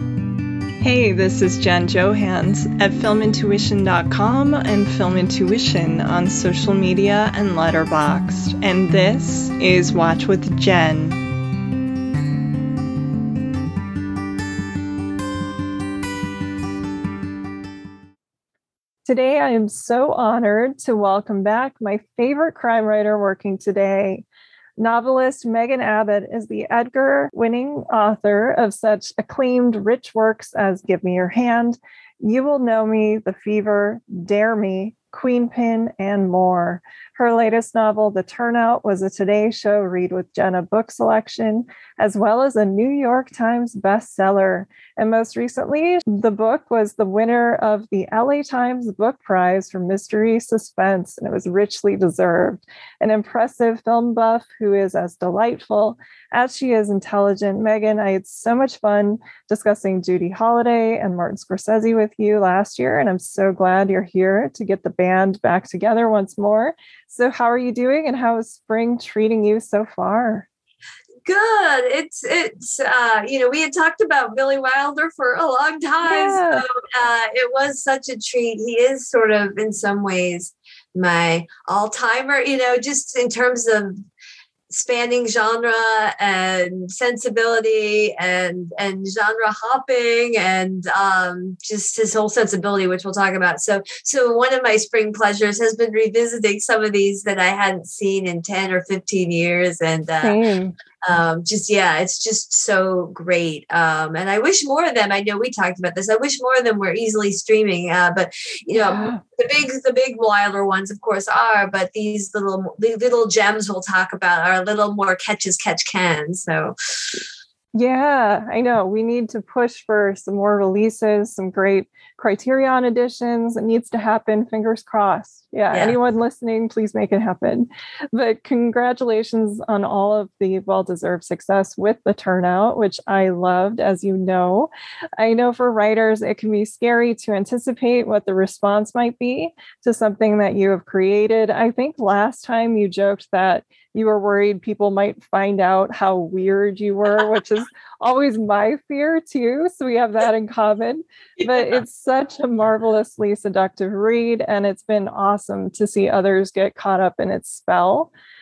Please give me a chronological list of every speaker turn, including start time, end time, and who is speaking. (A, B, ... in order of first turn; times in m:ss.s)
0:00.8-0:11.2 A
0:19.0-0:24.2 A
0:24.8-1:10.5 A
1:11.2-1:24.0 B
1:16.0-1:16.6 A
1:24.7-1:40.4 B
1:40.2-1:40.7 A
1:41.0-1:57.2 B
1:48.7-1:49.2 A
1:57.7-2:38.1 A
2:31.4-2:31.8 B